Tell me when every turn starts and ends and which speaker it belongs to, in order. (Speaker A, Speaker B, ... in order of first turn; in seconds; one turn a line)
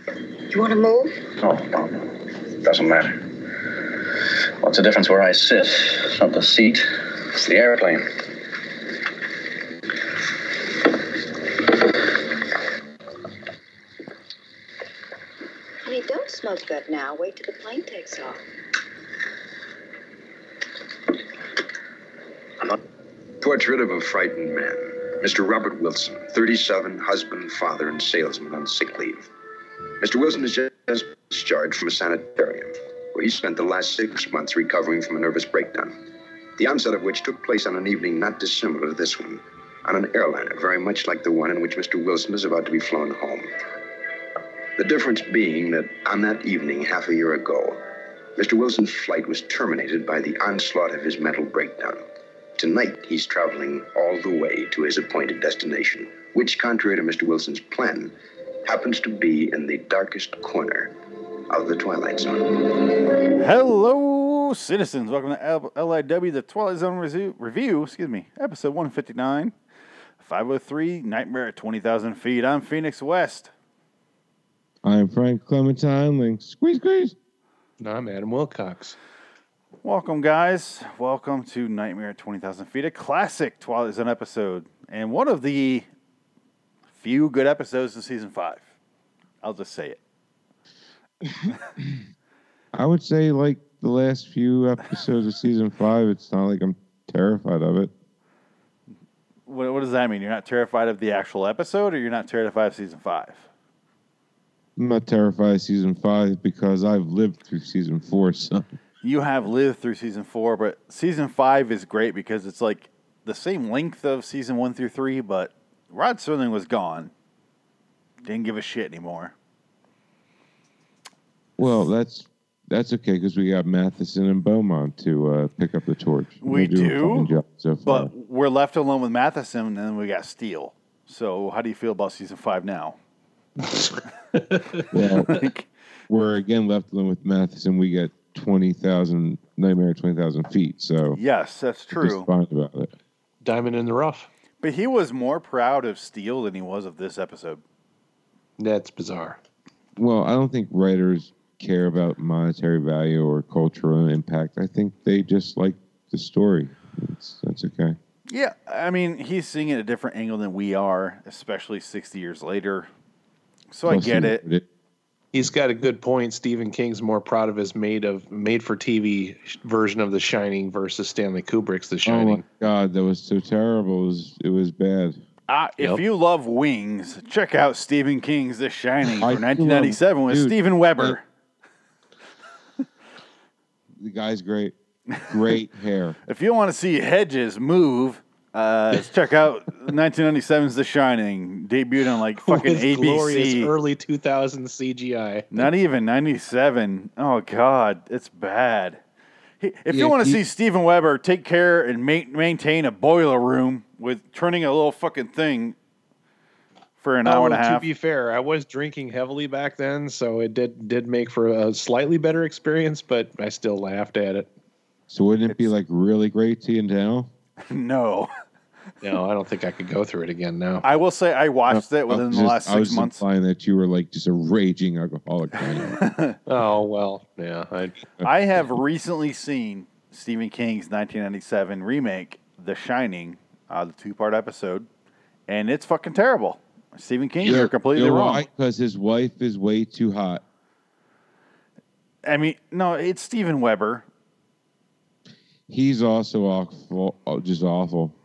Speaker A: 0.5-1.2
Speaker B: 1.4-3.3
Speaker B: 4.6-8.1
Speaker A: 15.8-18.4
Speaker C: 23.4-29.3
Speaker C: 30.0-36.0
Speaker C: 36.6-43.5
Speaker C: 44.8-47.8
Speaker C: 48.4-52.0
Speaker C: 52.6-58.1
Speaker C: 58.6-60.9
Speaker C: 61.5-62.8
Speaker D: 63.4-69.5
Speaker D: 70.2-73.5
Speaker E: 74.8-77.2
Speaker F: 77.8-79.0
Speaker D: 79.8-85.8
Speaker D: 86.9-88.6
Speaker D: 89.4-90.0
Speaker E: 91.2-92.0
Speaker E: 92.7-97.9
Speaker D: 99.5-103.5
Speaker E: 104.8-108.7
Speaker D: 109.0-117.1
Speaker D: 118.2-119.3
Speaker E: 121.6-128.1
Speaker D: 126.4-127.3
Speaker D: 127.8-133.0
Speaker F: 133.6-134.8
Speaker E: 134.9-135.3
Speaker D: 135.3-135.7
Speaker E: 136.1-141.2
Speaker D: 141.2-142.3
Speaker E: 141.9-142.9
Speaker F: 143.4-144.3
Speaker D: 144.6-147.6
Speaker F: 148.6-149.4
Speaker E: 149.9-158.0
Speaker D: 158.3-162.9
Speaker D: 163.7-164.4
Speaker E: 163.8-164.6
Speaker F: 165.3-172.4
Speaker E: 172.0-175.2
Speaker D: 175.5-181.2
Speaker E: 179.2-181.2
Speaker E: 184.0-184.8
Speaker E: 185.3-186.2
Speaker D: 186.3-193.7
Speaker F: 192.4-195.7
Speaker D: 195.5-199.0
Speaker D: 199.6-205.8
Speaker E: 199.9-200.4
Speaker D: 207.0-207.9
Speaker F: 207.2-214.5
Speaker E: 215.1-217.3
Speaker D: 217.6-218.3
Speaker F: 219.0-220.8
Speaker D: 220.8-223.2
Speaker E: 221.7-226.0
Speaker D: 225.7-226.4
Speaker F: 226.5-228.0
Speaker D: 228.2-234.9
Speaker D: 235.5-238.4
Speaker E: 237.4-240.4
Speaker D: 242.2-244.0
Speaker E: 245.7-248.1